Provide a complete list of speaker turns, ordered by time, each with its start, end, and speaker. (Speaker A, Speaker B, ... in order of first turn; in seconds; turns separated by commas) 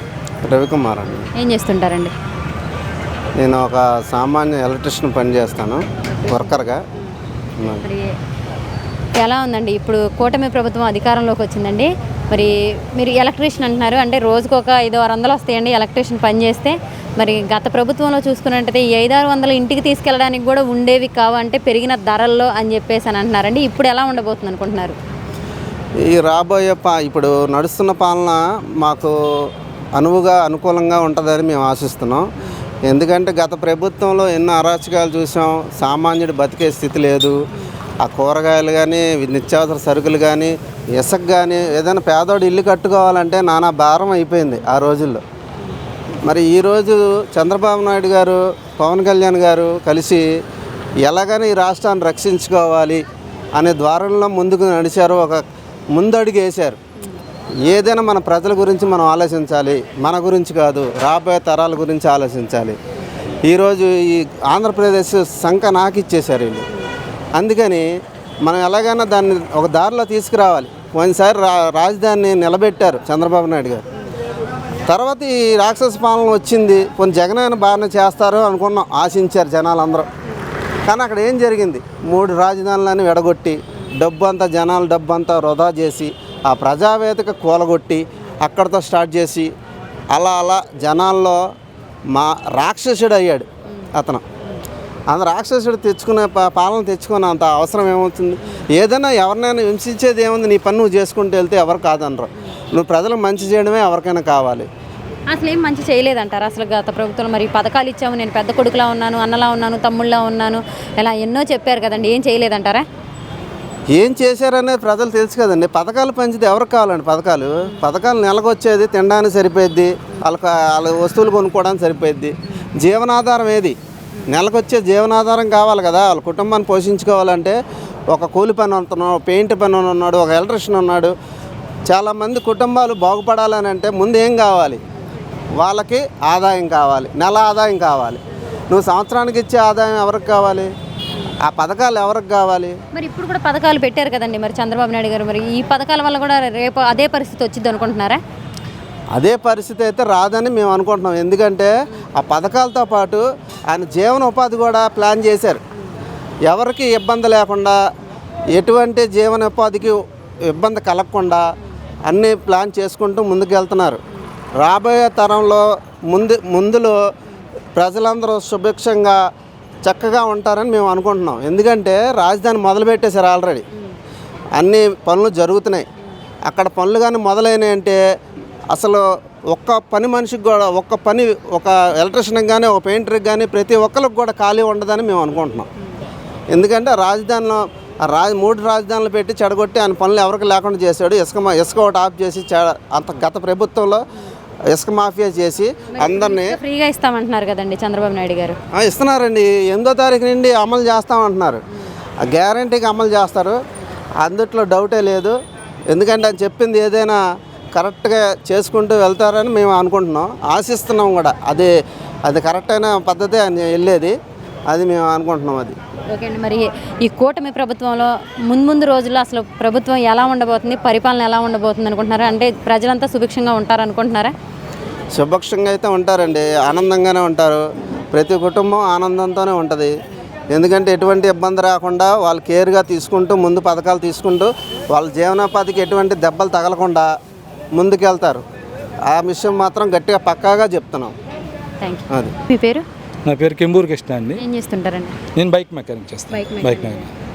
Speaker A: 0.5-1.3, Speaker B: 1.4-2.1, Speaker A: 3.4-6.8, Speaker B: 6.1-6.6, Speaker B: 7.8-8.2, Speaker B: 9.2-25.0, Speaker A: 26.0-29.1, Speaker A: 30.0-32.2, Speaker A: 32.9-37.4, Speaker A: 38.0-45.2, Speaker A: 46.2-50.3, Speaker A: 51.0-53.0, Speaker A: 53.6-55.4, Speaker A: 55.9-56.8, Speaker A: 57.7-62.8, Speaker A: 63.5-66.7, Speaker A: 67.3-67.9, Speaker A: 68.4-73.8, Speaker A: 74.9-80.1, Speaker A: 80.9-89.5, Speaker A: 90.1-91.4, Speaker A: 92.1-94.2, Speaker A: 95.1-104.7, Speaker B: 105.3-112.8, Speaker A: 113.9-123.8, Speaker A: 124.3-127.6, Speaker A: 128.1-131.1, Speaker A: 131.9-134.8, Speaker A: 135.6-140.7, Speaker A: 141.4-142.8, Speaker B: 142.9-148.2, Speaker A: 149.2-155.6, Speaker A: 156.5-157.8, Speaker A: 158.5-161.4, Speaker A: 162.1-164.0, Speaker A: 164.6-167.0, Speaker A: 167.8-169.2, Speaker A: 169.8-173.7, Speaker A: 174.6-175.9, Speaker A: 176.5-178.0, Speaker A: 178.7-185.7, Speaker A: 186.5-194.0, Speaker A: 194.7-196.6, Speaker B: 195.9-198.6, Speaker A: 198.8-201.6, Speaker A: 202.2-203.6, Speaker A: 204.2-205.3, Speaker A: 205.9-207.2, Speaker A: 207.8-211.7, Speaker A: 212.3-214.2, Speaker A: 214.7-215.8, Speaker B: 216.1-224.3, Speaker A: 225.2-229.9, Speaker A: 230.5-237.1, Speaker A: 237.7-238.4, Speaker A: 239.1-241.2, Speaker B: 241.8-242.8, Speaker C: 243.3-244.4, Speaker B: 244.4-245.2, Speaker C: 245.3-247.1, Speaker B: 246.3-247.1